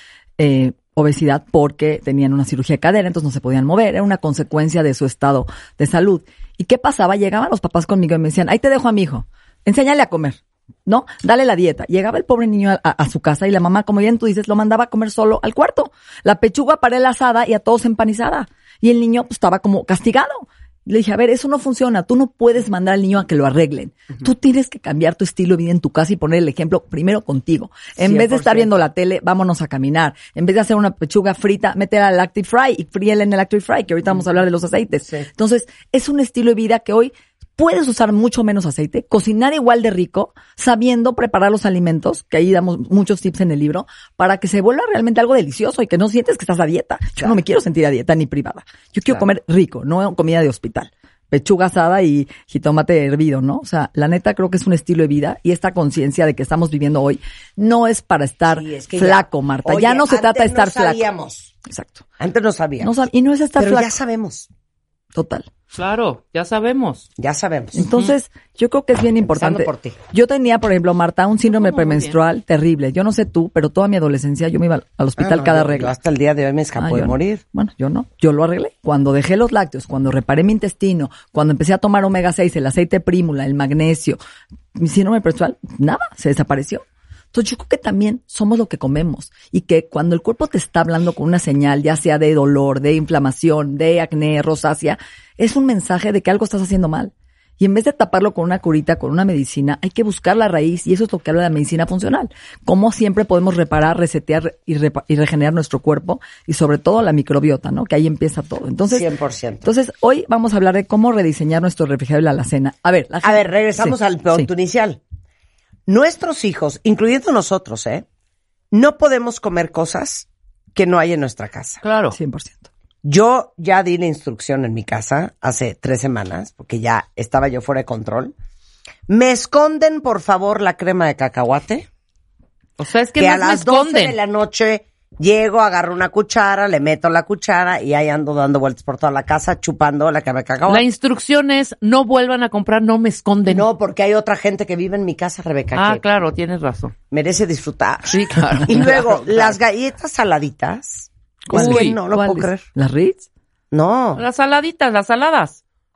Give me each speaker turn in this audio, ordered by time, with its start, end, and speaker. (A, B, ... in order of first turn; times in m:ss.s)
0:00.4-1:01.1 A
0:28.0-0:28.8 B
0:58.5-1:01.5 B
1:01.7-1:02.0 A
1:02.2-1:03.0 B
1:02.8-1:03.9 A
1:03.6-1:04.5 B
1:05.1-1:05.4 A
1:05.7-1:07.1 C
1:07.2-1:07.9 B
1:07.7-1:15.9 A
1:09.2-1:10.0 B
1:11.5-1:12.2 C
1:15.2-1:17.4 B
1:16.8-1:24.2 A
1:24.8-1:49.1 A
1:48.9-1:49.7 B
1:49.6-1:54.5 A
1:53.2-1:55.0 B
1:55.9-1:58.0 B
1:58.7-2:01.8 B
2:01.8-2:02.2 C
2:02.1-2:02.7 A
2:03.0-2:08.3 B
2:09.1-2:11.9 B
2:12.8-2:14.2 C
2:13.2-2:20.8 B
2:20.7-2:23.6 C
2:23.5-2:26.0 B
2:25.7-2:26.9 C
2:27.1-2:32.6 B
2:28.1-2:29.6 C
2:31.5-2:33.2 A
2:31.5-2:31.9 C
2:33.7-2:34.2 B
2:34.2-2:35.6 C